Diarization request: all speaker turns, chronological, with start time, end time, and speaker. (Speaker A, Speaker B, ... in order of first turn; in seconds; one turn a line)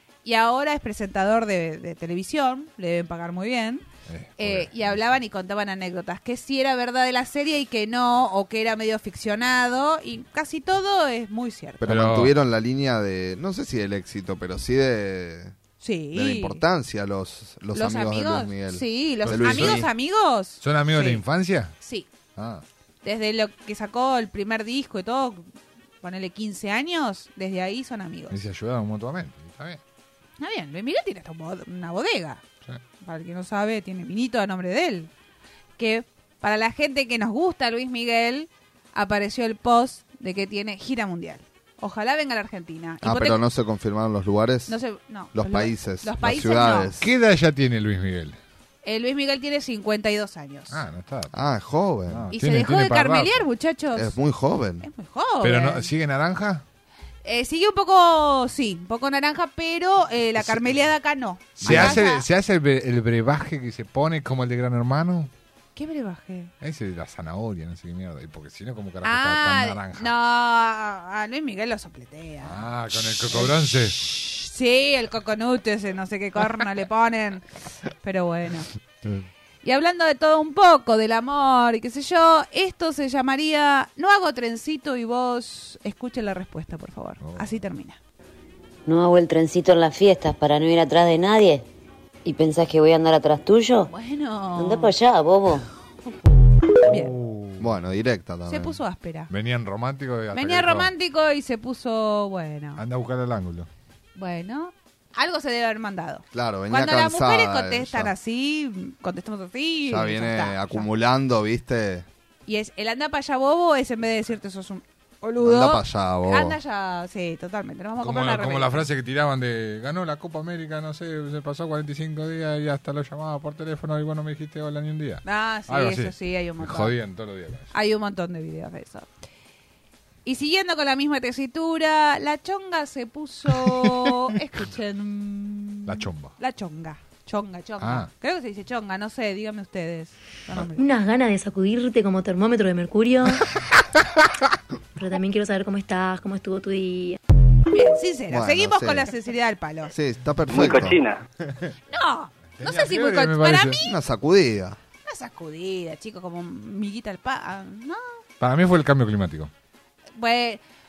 Speaker A: 0.2-3.8
Speaker B: 4.1-5.0
Speaker A: 4.4-11.8
Speaker C: 11.8-15.6
Speaker B: 11.8-12.3
Speaker A: 15.8-16.6
Speaker C: 16.1-19.9
Speaker A: 17.7-21.2
Speaker B: 19.2-19.9
Speaker B: 20.6-21.7
Speaker A: 21.8-22.1
Speaker B: 22.4-22.6
Speaker A: 23.0-25.5
Speaker A: 26.0-28.4
Speaker B: 28.3-29.8
Speaker A: 30.4-32.4
Speaker A: 33.0-35.1
Speaker A: 35.8-43.4
Speaker C: 43.0-44.8
Speaker A: 44.7-46.9
Speaker C: 45.3-47.1
Speaker B: 47.0-48.4
Speaker A: 48.8-50.8
Speaker B: 50.7-51.4
Speaker C: 51.3-52.3
Speaker B: 52.1-53.5
Speaker A: 52.3-54.2
Speaker C: 53.9-54.9
Speaker A: 54.8-55.9
Speaker B: 55.4-56.6
Speaker A: 57.2-62.2
Speaker B: 61.6-65.3
Speaker C: 61.6-62.0
Speaker A: 65.8-66.5
Speaker B: 66.6-70.1
Speaker A: 69.0-77.4
Speaker B: 72.4-74.0
Speaker A: 78.0-78.7
Speaker A: 79.6-88.0
Speaker B: 87.2-87.5
Speaker D: 88.8-91.6
Speaker D: 92.2-93.9
Speaker A: 93.9-94.9
Speaker D: 94.5-95.6
Speaker A: 96.8-97.1
Speaker B: 96.9-97.7
Speaker C: 97.6-98.8
Speaker A: 98.5-99.3
Speaker B: 99.3-100.9
Speaker A: 100.3-102.8
Speaker B: 102.8-103.7
Speaker A: 104.2-110.9
Speaker C: 106.3-108.1
Speaker C: 109.9-112.1
Speaker A: 112.5-118.8
Speaker C: 115.4-116.6
Speaker B: 118.0-127.7
Speaker A: 125.2-126.9
Speaker A: 127.7-129.1
Speaker A: 130.2-140.8
Speaker B: 133.6-134.1
Speaker B: 135.9-136.3
Speaker B: 137.8-138.1
Speaker E: 140.8-143.4
Speaker E: 145.0-147.2
Speaker A: 147.7-149.9
Speaker C: 148.3-149.1
Speaker C: 149.9-151.0
Speaker A: 151.9-153.9
Speaker B: 152.6-153.8
Speaker C: 153.8-154.8
Speaker A: 155.0-158.2
Speaker B: 158.4-159.5
Speaker A: 160.2-160.6